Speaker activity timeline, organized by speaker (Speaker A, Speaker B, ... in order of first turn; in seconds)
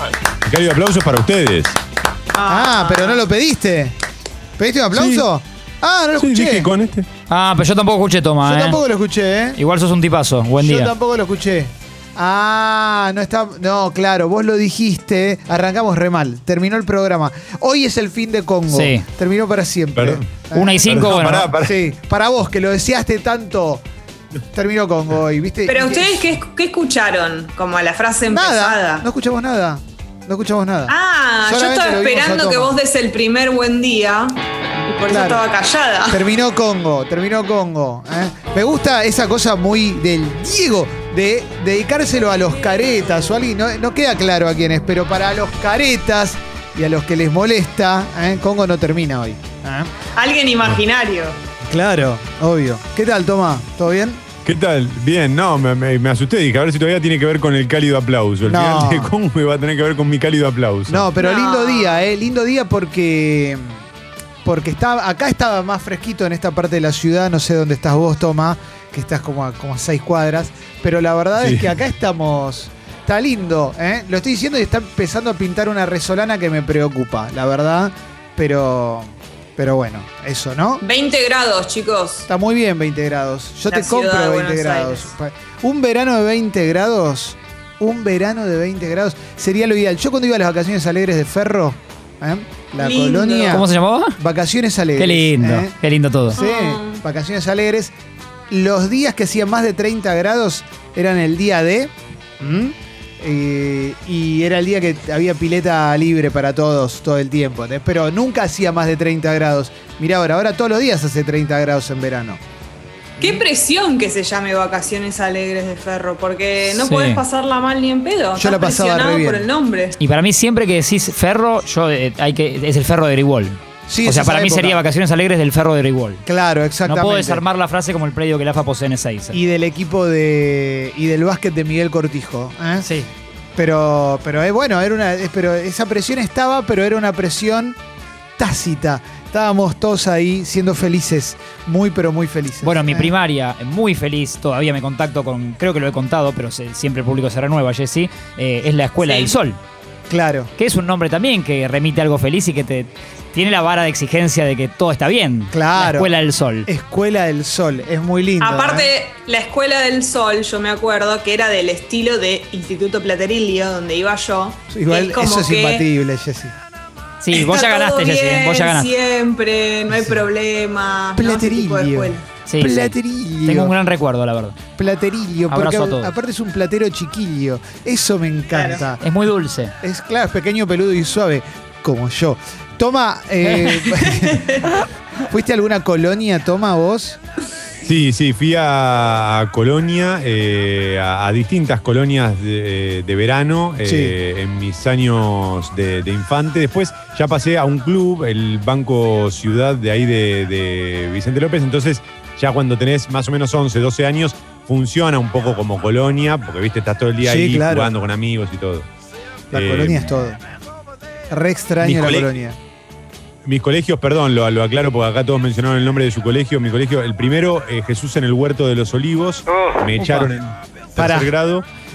Speaker A: 0.4-1.7, 4.9-5.3, 6.2-7.1, 20.0-20.3, 20.8-21.8, 54.5-61.1, 71.4-71.7, 187.8-208.9, 209.5-210.1, 211.8-212.3, 213.5-221.7
Speaker B: 2.3-3.2, 25.7-29.1, 30.9-36.2, 50.2-51.4, 61.2-62.1, 80.8-82.3, 83.7-85.1, 92.8-93.6, 96.3-97.0, 113.2-120.0, 149.0-149.3, 158.4-165.8, 167.3-172.3, 178.5-178.8
Speaker C: 2.5-4.0, 4.6-6.7, 8.4-9.6, 10.6-23.8, 24.5-26.2, 28.3-32.8, 35.1-35.4, 36.1-49.9, 51.7-54.2, 58.4-59.1, 60.9-63.8, 64.4-80.8, 82.3-93.7, 94.2-95.7, 96.3-97.9, 98.5-112.4, 118.4-119.5, 123.9-124.8, 126.3-127.4, 129.3-132.9, 133.6-137.8, 138.4-143.1, 150.1-150.5, 155.5-156.1, 156.7-158.9, 164.7-166.6, 171.2-173.7, 174.8-179.0, 179.8-184.5, 185.3-187.2, 193.8-194.2, 207.2-207.9, 209.5-210.4, 211.3-212.6, 221.0-221.3
Speaker D: 7.3-8.8, 9.6-10.9, 18.7-19.0, 20.5-21.5, 93.5-94.2, 95.0-96.4, 116.8-117.2, 120.0-126.2, 126.9-129.3, 142.6-149.6, 150.6-156.7, 167.2-168.9, 172.5-172.9, 173.5-174.6, 175.5-176.1, 179.0-179.7, 183.4-183.8, 220.0-220.3